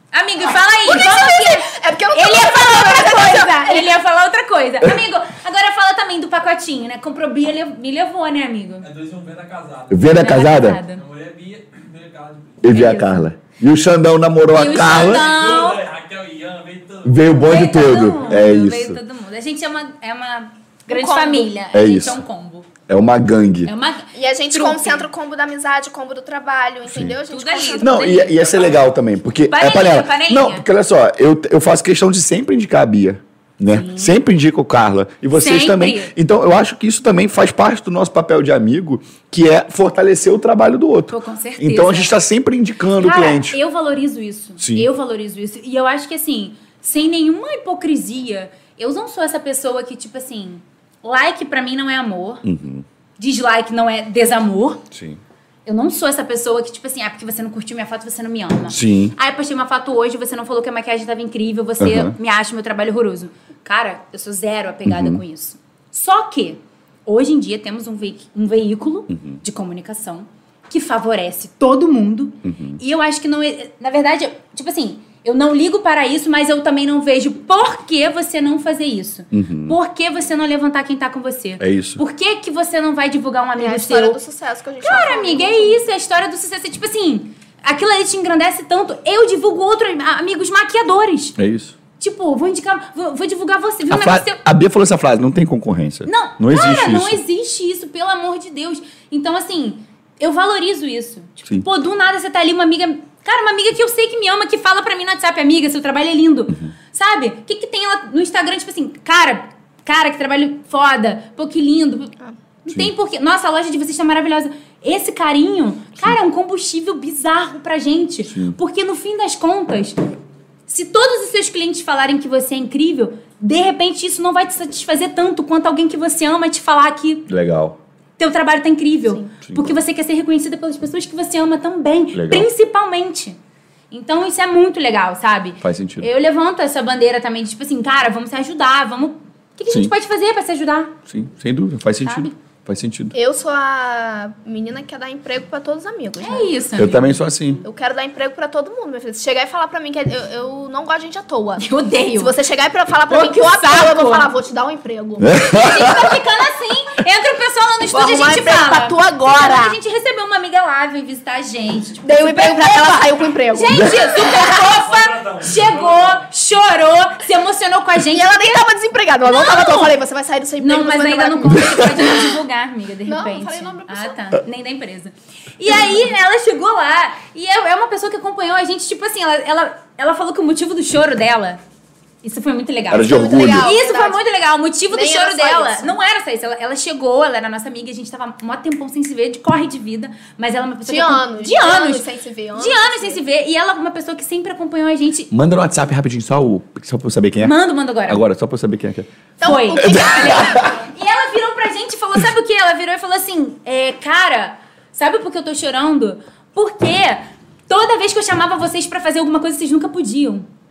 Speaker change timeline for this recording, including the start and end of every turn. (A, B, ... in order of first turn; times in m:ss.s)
0:00.1-0:08.8 A
0:00.4-0:03.9 B
0:08.8-0:10.2 C
0:09.9-0:10.8 D
0:10.2-0:11.0 A
0:10.9-0:12.7 C
0:12.6-0:15.4 D
0:12.7-0:13.2 A
0:14.5-0:15.8 A
0:14.8-0:17.5 C
0:17.0-0:19.0 D
0:17.5-0:22.7 A
0:20.9-0:21.6 B
0:21.7-0:22.2 D
0:22.9-0:23.7 D
0:23.6-0:25.0 A
0:24.1-0:28.8 B
0:27.3-0:28.4 A
0:27.8-0:43.6 D
0:29.5-0:30.6 A
0:33.7-0:34.1 A
0:35.3-0:36.1 A
0:41.1-0:42.2 A
0:43.0-0:52.4 A
0:44.6-0:44.9 D
0:52.4-0:52.8 D
0:53.2-0:54.8 A
0:54.9-0:55.2 D
0:55.6-1:24.2 A
0:58.7-0:59.1 D
1:01.8-1:02.2 D
1:04.8-1:05.2 D
1:09.1-1:09.4 D
1:12.4-1:12.8 D
1:19.3-1:19.8 D
1:21.6-1:22.0 D
1:23.6-1:25.8 B
1:24.8-1:31.4 A
1:31.4-1:31.8 D
1:32.0-1:34.4 A
1:33.9-1:37.2 D
1:36.0-1:52.1 A
1:46.5-1:46.7 D
1:52.6-2:00.1 A
1:58.3-1:58.6 D
2:00.7-2:07.3 A
2:07.3-2:07.8 D
2:08.2-2:13.4 A
2:12.1-2:12.5 D
2:13.9-2:21.0 A
2:15.6-2:16.1 D
2:21.1-2:23.1 D
2:23.1-2:26.5 B
2:26.2-2:27.1 A
2:26.8-2:27.6 D
2:27.6-2:36.0 B
2:31.6-2:32.3 A
2:33.1-2:34.3 A
2:35.2-2:36.1 D
2:35.5-2:48.6 A
2:37.9-2:39.8 B
2:42.0-2:44.7 B
2:44.4-2:46.2 C
2:48.0-2:52.3 B
2:49.2-2:49.9 A
2:50.6-3:01.6 A
2:53.0-2:54.2 B
2:55.7-2:56.0 B
3:02.2-3:12.0 A
3:02.9-3:03.7 D
3:03.0-3:04.2 B
3:04.9-3:05.9 B
3:10.8-3:13.2 B
3:12.6-3:15.3 A
3:15.3-3:17.6 D
3:17.4-3:18.2 A
3:18.1-3:19.1 D
3:19.4-3:20.8 B
3:19.4-3:30.5 A
3:19.8-3:20.7 D